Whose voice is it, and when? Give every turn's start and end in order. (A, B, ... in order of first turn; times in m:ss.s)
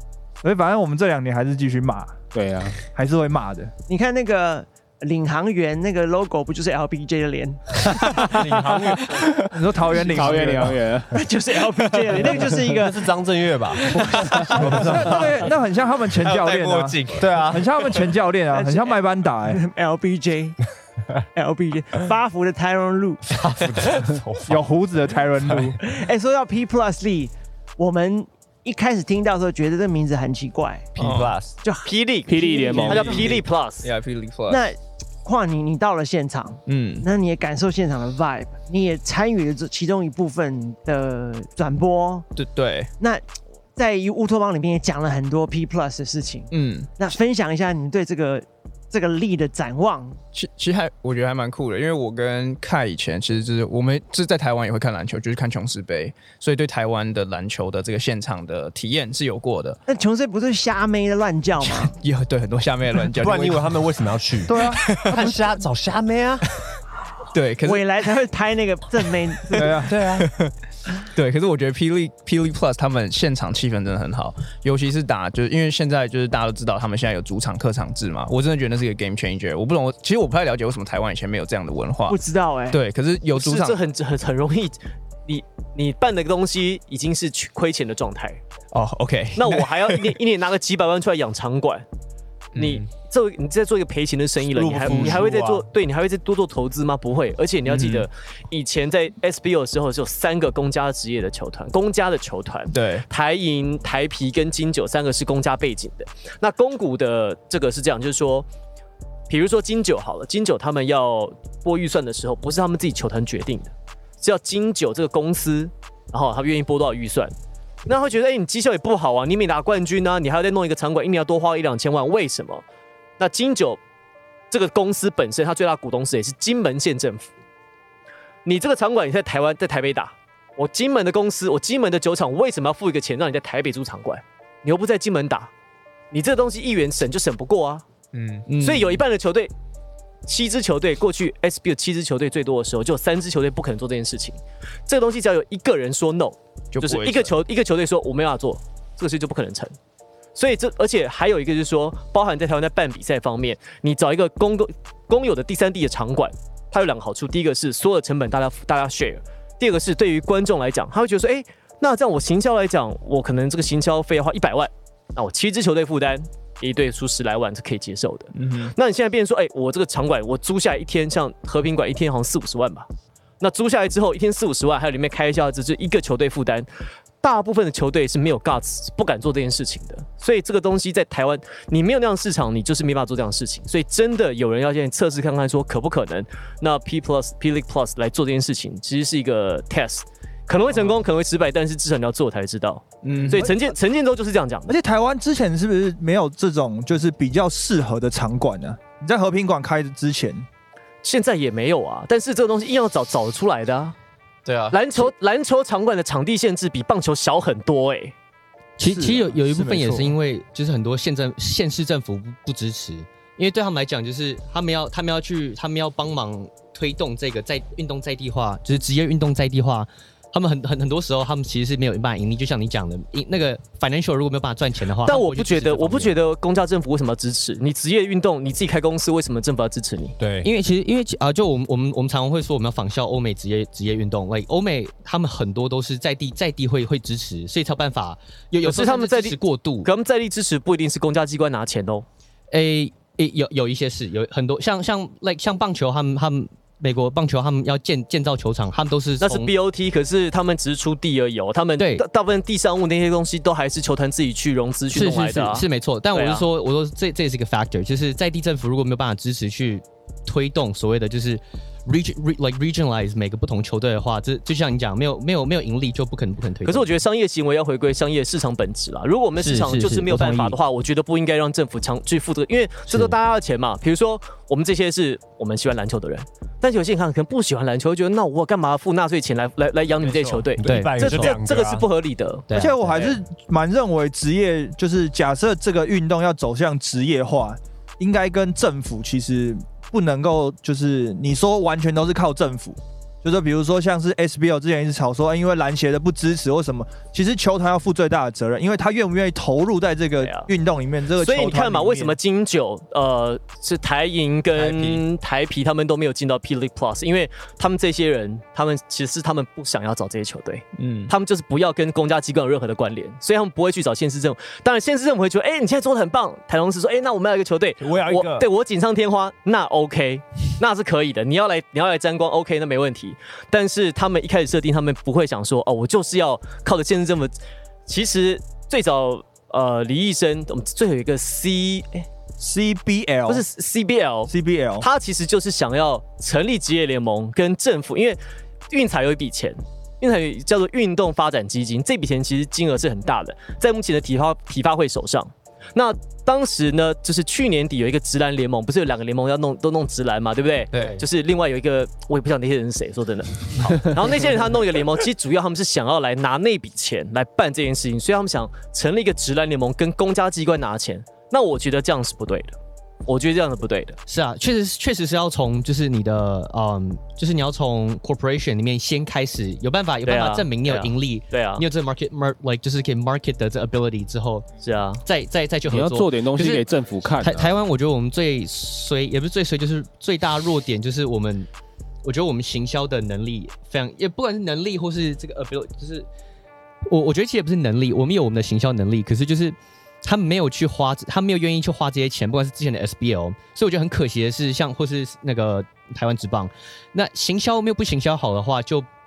0:00.4-0:02.2 A
0:02.3-0:02.8 B
0:02.9-0:03.7 A
0:03.9-0:08.2 C
0:08.3-0:09.2 D
0:09.1-0:11.2 B
0:09.5-0:10.8 A
0:11.1-0:13.1 C
0:12.2-0:15.5 D
0:13.8-0:14.8 C
0:14.6-0:19.6 A
0:16.2-0:18.0 E
0:17.2-0:17.7 D
0:18.5-0:20.6 C
0:21.3-0:23.2 C
0:23.3-0:24.6 D
0:24.5-0:25.8 A
0:25.8-0:30.9 C
0:31.0-0:31.4 F
0:31.0-0:31.5 D
0:31.6-0:33.2 C
0:31.8-0:33.9 G
0:32.3-0:33.3 B
0:33.0-0:34.6 F
0:34.5-0:42.3 C
0:36.6-0:37.1 F
0:42.3-0:42.9 F
0:43.0-0:43.2 C
0:43.8-0:50.2 C
0:46.5-0:46.9 F
0:50.3-0:59.8 F
0:59.9-1:01.9 C
1:01.6-1:03.8 F
1:03.1-1:06.4 D
1:04.5-1:04.8 A
1:04.7-1:05.4 F
1:07.3-1:07.9 F
1:07.6-1:09.6 C
1:09.5-1:10.5 F
1:09.5-1:10.0 A
1:09.8-1:10.3 D
1:11.1-1:22.2 F
1:22.1-1:22.8 C
1:22.7-1:23.8 F
1:23.3-1:24.8 G
1:25.3-1:28.4 G
1:28.7-1:30.2 F
1:29.3-1:31.8 G
1:32.5-1:48.5 G
1:34.5-1:35.7 D
1:34.9-1:35.2 F
1:37.6-1:38.0 F
1:42.7-1:43.0 F
1:49.3-1:57.3 G
1:57.8-2:02.6 G
2:03.2-2:03.8 G
2:04.5-2:07.3 G
2:08.4-2:15.5 G
2:16.1-2:17.8 G
2:18.1-2:18.4 E
2:18.5-2:19.0 F
2:18.5-2:19.5 G
2:20.2-2:29.7 G
2:26.7-2:27.4 F
2:30.3-2:52.9 G
2:48.3-2:48.7 F
2:53.4-2:56.7 G
2:57.2-3:14.8 G
3:13.0-3:13.6 F
3:14.7-3:20.4 A
3:21.0-3:23.9 G
3:24.4-3:25.0 E
3:24.7-3:28.1 G
3:28.8-3:46.2 H
3:28.8-3:30.1 A
3:45.0-3:50.2 G
3:50.2-3:50.5 D
3:50.4-3:59.9 H
3:58.6-4:02.0 G
4:02.5-4:09.5 H
4:09.2-4:16.4 G
4:11.8-4:12.0 H
4:14.9-4:26.9 H
4:26.6-4:42.5 G
4:29.4-4:30.6 H
4:32.9-4:33.1 H
4:40.6-4:41.8 D
4:40.6-4:41.3 H
4:42.5-4:43.2 H
4:42.5-5:02.2 A
5:00.2-5:00.5 G
5:01.1-5:27.3 G
5:10.7-5:11.1 F
5:17.8-5:18.5 D
5:27.8-5:32.1 G
5:32.4-5:33.4 A
5:33.3-6:04.0 G
5:34.3-5:34.9 A
5:50.7-5:51.0 H
6:04.1-6:14.5 H
6:10.0-6:11.6 G
6:14.6-6:15.0 G
6:15.0-6:21.5 H
6:15.7-6:17.5 B
6:22.0-6:26.1 H
6:26.9-6:38.8 H